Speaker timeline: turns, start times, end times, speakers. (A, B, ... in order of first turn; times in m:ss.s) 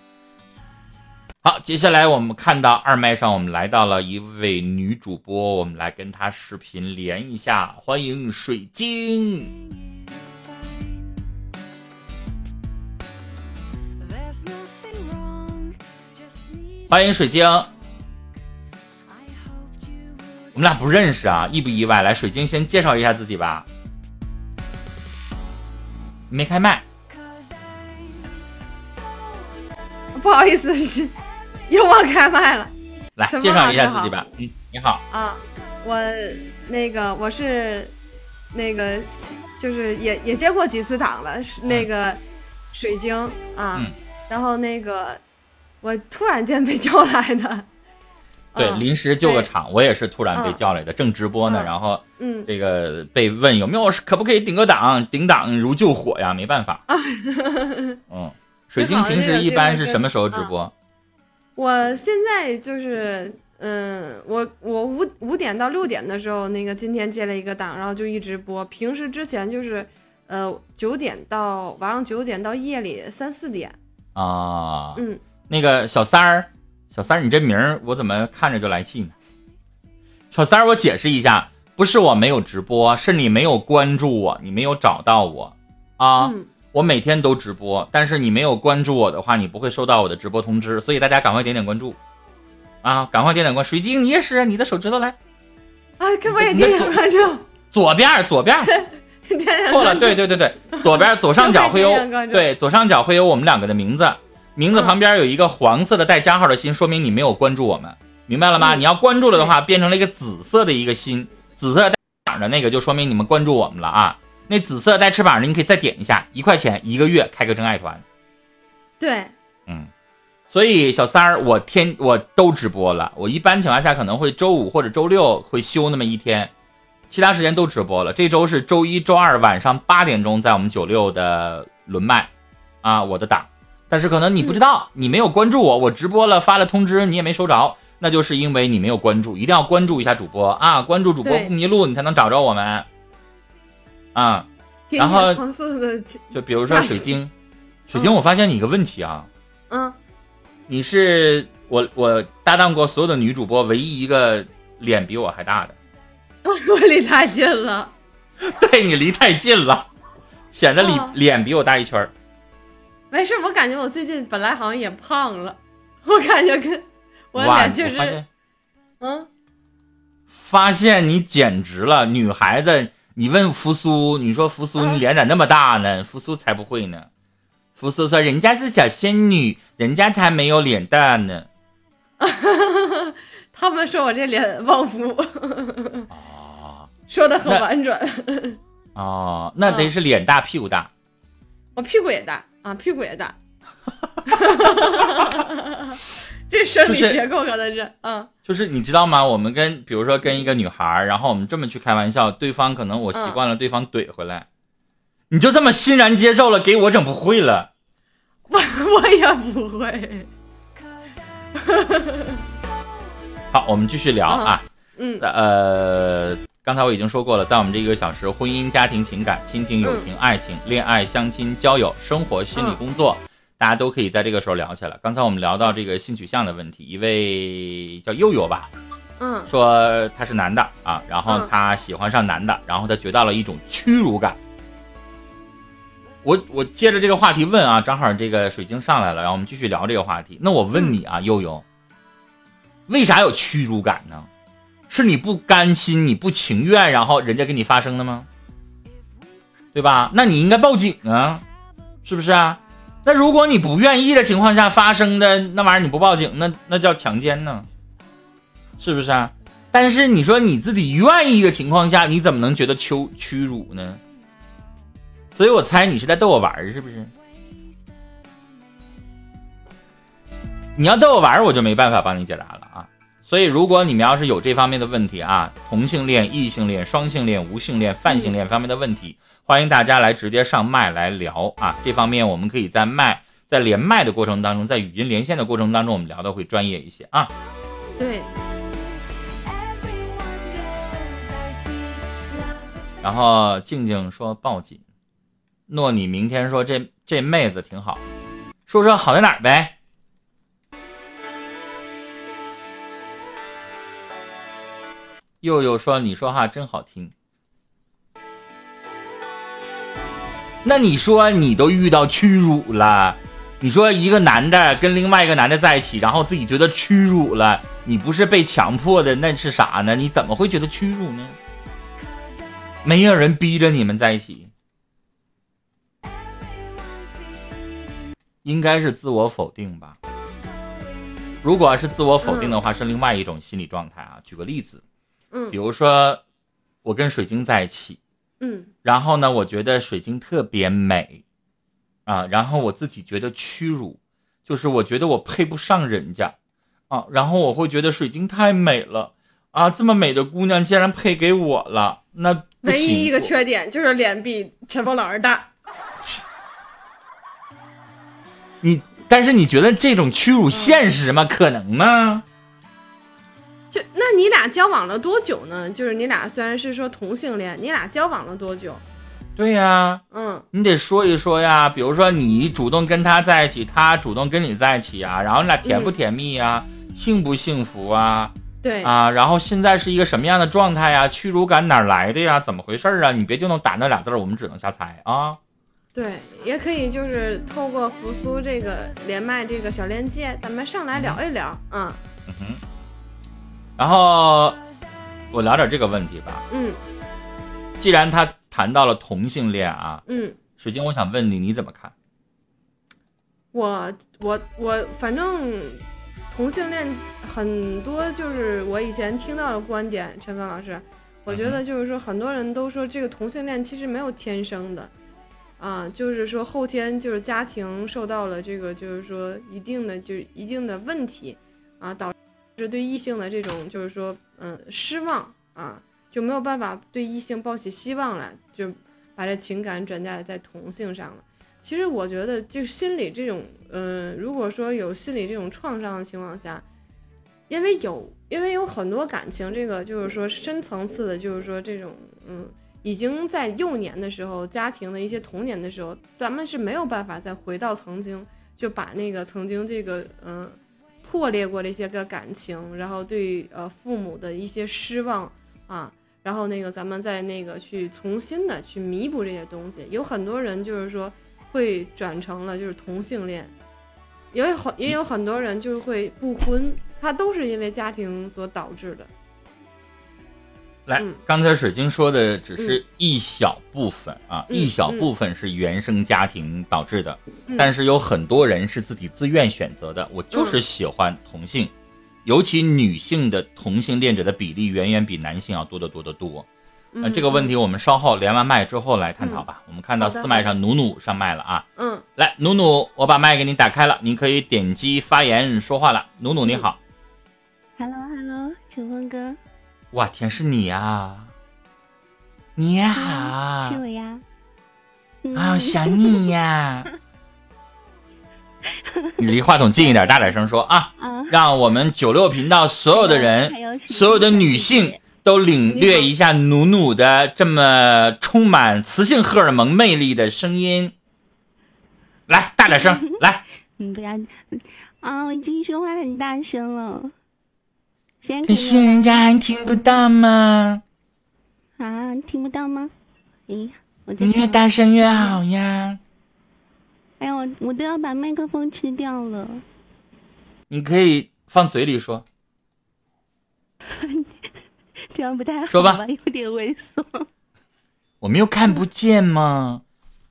0:01.4-0:09.6 A
0:16.9-0:17.7 A
0:20.5-0:23.7 A
0:26.3-0:26.9 A
0:30.1-0:31.2 B
0:31.7-0:32.7 B
0:33.2-0:35.0 A
0:33.3-0:34.2 B
0:35.1-0:37.9 B
0:38.5-0:42.2 B
0:42.7-0:45.2 B
0:45.8-0:47.7 B
0:48.5-0:49.5 B
0:48.6-0:56.8 A
0:50.4-0:50.6 B
0:51.5-0:52.5 B
0:56.9-0:58.0 B
0:58.1-1:00.7 A
0:58.8-1:00.5 B
1:01.6-1:13.8 B
1:14.2-1:19.2 A
1:15.0-1:15.2 B
1:20.3-1:32.0 A
1:26.2-1:26.5 B
1:32.8-1:35.2 A
1:36.0-1:37.4 B
1:36.3-1:37.0 A
1:37.7-1:38.7 A
1:38.7-1:40.2 B
1:39.7-1:58.0 A
1:40.7-1:42.5 B
1:48.6-1:49.5 B
1:59.0-1:59.3 B
2:00.5-2:06.5 A
2:07.1-2:12.3 A
2:12.8-2:22.9 A
2:21.2-2:21.5 B
2:24.2-2:25.4 A
2:24.9-2:27.1 B
2:26.3-2:27.3 A
2:27.9-2:29.3 A
2:29.7-2:30.0 B
2:30.7-2:35.8 A
2:36.4-2:37.9 B
2:38.4-2:39.9 A
2:40.5-2:42.1 A
2:40.8-2:41.2 B
2:43.1-2:48.2 B
2:47.4-2:48.3 A
2:49.0-2:49.3 B
2:50.3-2:57.1 A
2:57.8-3:01.5 A
3:02.2-3:06.1 B
3:06.1-3:06.9 A
3:07.1-3:08.6 B
3:09.0-3:10.9 A
3:09.7-3:09.9 B
3:11.8-3:13.4 B
3:14.3-3:18.3 B
3:16.8-3:17.2 A
3:18.5-3:24.5 A
3:23.1-3:23.4 B
3:25.3-3:27.7 A
3:28.5-3:30.3 B
3:31.6-3:32.4 B
3:33.5-3:34.7 A
3:34.3-3:35.2 B
3:35.2-3:48.7 A
3:39.8-3:40.1 B
3:49.2-3:49.5 B
3:49.5-3:54.4 A
3:56.2-4:01.6 A
4:02.9-4:04.3 A
4:04.9-4:08.3 A
4:09.7-4:11.4 A
4:12.0-4:17.7 A
4:18.8-4:24.0 A
4:25.3-4:27.1 A
4:30.8-4:47.3 A
4:38.1-4:38.3 B
4:48.0-4:48.3 B
4:53.0-4:54.8 A
4:55.7-4:58.0 A
4:58.7-4:59.8 A
5:05.4-5:07.1 A
5:10.6-5:21.4 A
5:22.8-5:24.5 A
5:28.4-5:30.0 A
5:31.4-5:34.8 A
5:32.2-5:32.6 B
5:35.5-5:36.2 A
5:36.8-5:38.0 A
5:38.4-5:38.7 B
5:38.8-5:41.2 A
5:42.1-5:46.4 A
5:46.9-5:53.3 A
5:52.6-5:55.5 B
5:58.6-6:02.2 A
6:00.5-6:00.8 B
6:03.7-6:08.8 B
6:09.4-6:10.0 A
6:10.1-6:10.5 B
6:10.5-6:25.4 A
6:15.6-6:16.0 B
6:18.6-6:18.9 B
6:26.0-6:32.0 B
6:31.0-6:31.2 A
6:32.3-6:32.6 A
6:33.8-6:34.6 A
6:35.3-6:36.4 A
6:36.5-6:36.8 B
6:37.8-6:40.0 A
6:40.1-6:40.4 B
6:40.6-6:41.9 A
6:43.5-6:54.9 B
6:51.3-6:51.6 A
6:55.6-7:16.6 B
7:17.5-7:43.5 B
7:44.3-7:49.1 B
7:50.9-8:01.7 A
7:54.5-7:55.1 B
7:57.5-7:57.7 B
8:00.3-8:00.6 B
8:02.2-8:06.5 A
8:06.9-8:07.5 B
8:07.0-8:11.7 A
8:09.2-8:09.4 B
8:10.0-8:10.5 B
8:11.8-8:12.0 B
8:12.2-8:16.8 A
8:17.8-8:19.4 C
8:19.9-8:21.3 A
8:22.6-8:23.8 A
8:22.9-8:24.2 C
8:25.2-8:26.3 C
8:25.4-8:26.9 A
8:28.6-8:30.4 C
8:29.2-8:40.9 A
8:31.0-8:31.4 C
8:32.9-8:35.0 C
8:35.7-8:36.1 B
8:42.3-8:43.4 A
8:42.6-8:43.2 C
8:43.8-8:47.1 C
8:48.2-8:49.2 C
8:48.4-8:50.8 A
8:51.8-8:52.9 C
8:53.5-8:55.4 C
8:54.2-8:56.0 A
8:57.2-8:59.6 C
9:00.7-9:02.2 A
9:03.9-9:07.3 C
9:05.7-9:06.0 A
9:08.2-9:09.8 A